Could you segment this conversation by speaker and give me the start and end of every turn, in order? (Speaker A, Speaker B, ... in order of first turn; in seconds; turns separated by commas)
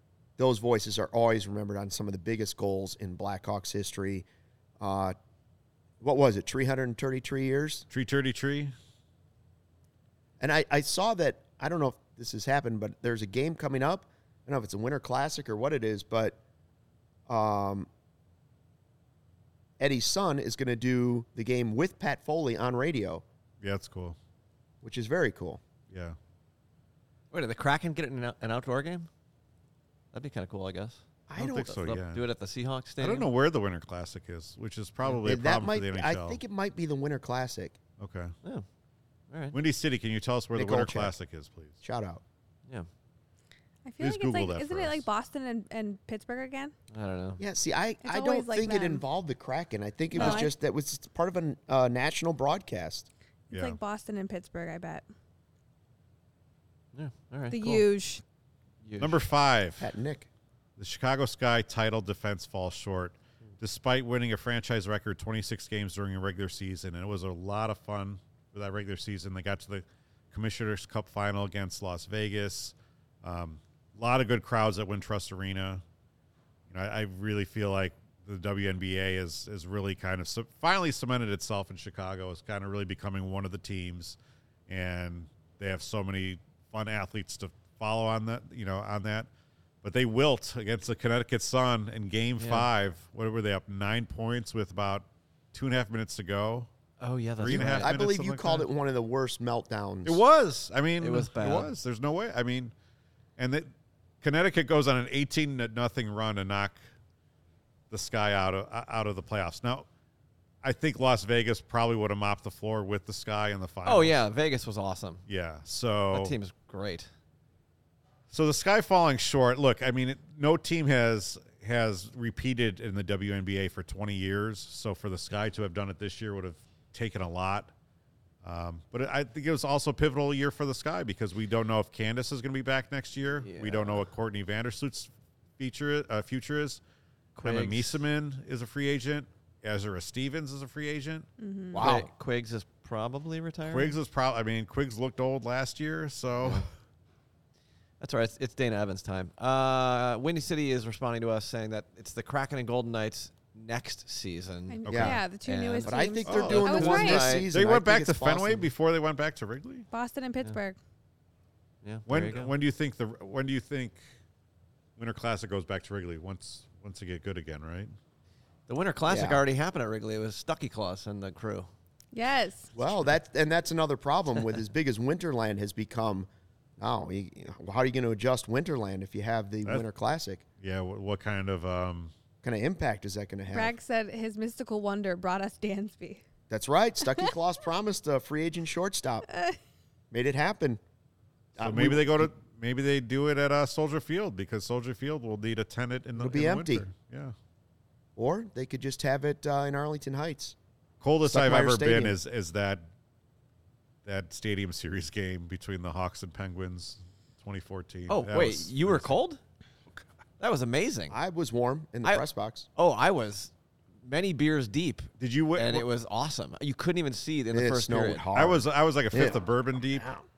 Speaker A: 0.4-4.2, Speaker A: 4.8-5.2, Speaker A: 6.0-7.8, Speaker B: 7.9-8.7, Speaker A: 10.4-16.4, Speaker A: 17.3-17.9, Speaker A: 19.8-23.2, Speaker B: 23.6-24.2, Speaker A: 24.8-25.6, Speaker B: 25.9-26.1, Speaker C: 27.3-29.1, Speaker C: 30.1-31.0, Speaker A: 31.3-31.7, Speaker B: 31.4-32.3, Speaker C: 31.6-33.3, Speaker B: 33.0-36.4, Speaker A: 35.2-37.8, Speaker B: 38.0-38.3, Speaker C: 39.3-39.5, Speaker B: 39.5-41.8, Speaker A: 40.5-41.1, Speaker A: 41.8-42.2, Speaker D: 43.8-46.7, Speaker B: 44.0-45.1, Speaker C: 46.9-47.4, Speaker A: 47.4-53.1, Speaker D: 48.0-49.0, Speaker D: 50.1-50.5, Speaker C: 50.2-50.5, Speaker D: 53.5-55.0, Speaker B: 53.5-53.8, Speaker C: 56.9-57.8, Speaker D: 57.5-58.2, Speaker C: 58.8-59.2, Speaker B: 59.0-59.9, Speaker A: 59.8-60.3, Speaker B: 60.8-75.8, Speaker B: 76.7-84.2, Speaker B: 84.7-89.3, Speaker B: 89.8-96.7, Speaker C: 92.4-92.7, Speaker C: 97.0-97.9, Speaker B: 97.4-98.7, Speaker A: 97.5-100.2, Speaker B: 100.0-102.7, Speaker C: 101.0-101.7, Speaker B: 103.4-103.7, Speaker B: 104.2-106.8, Speaker B: 107.9-109.8, Speaker B: 110.6-114.2, Speaker C: 113.8-115.2, Speaker B: 115.3-116.3, Speaker C: 116.1-117.1, Speaker B: 118.3-127.7, Speaker B: 128.4-136.8, Speaker C: 133.4-134.1, Speaker C: 137.3-138.0, Speaker B: 137.4-141.3, Speaker D: 141.4-141.8, Speaker A: 141.7-142.1, Speaker C: 141.8-144.0, Speaker B: 143.6-146.7, Speaker C: 148.0-157.5, Speaker D: 154.7-157.4, Speaker B: 154.8-155.1, Speaker A: 154.9-155.2, Speaker A: 155.8-158.7, Speaker B: 156.2-156.7, Speaker B: 157.5-159.8, Speaker D: 159.9-160.8, Speaker C: 161.8-162.5, Speaker B: 162.1-164.0, Speaker B: 165.0-167.9, Speaker C: 168.7-171.7, Speaker A: 169.1-169.4, Speaker D: 172.1-172.7, Speaker A: 172.7-176.3, Speaker A: 176.8-180.4, Speaker B: 180.6-182.1, Speaker A: 182.4-183.8, Speaker D: 183.5-186.2, Speaker A: 186.5-189.2, Speaker D: 189.3-189.6, Speaker A: 190.1-190.8, Speaker A: 191.6-192.3, Speaker B: 191.6-197.3, Speaker A: 196.2-196.8, Speaker A: 198.2-200.6, Speaker B: 201.0-202.8, Speaker A: 201.2-202.2, Speaker B: 204.0-209.2, Speaker C: 208.1-209.4, Speaker C: 210.4-211.2, Speaker A: 211.1-212.7, Speaker C: 212.8-213.5, Speaker C: 214.0-218.2, Speaker B: 215.2-215.9, Speaker A: 217.5-219.4, Speaker B: 218.3-220.1, Speaker A: 219.9-220.2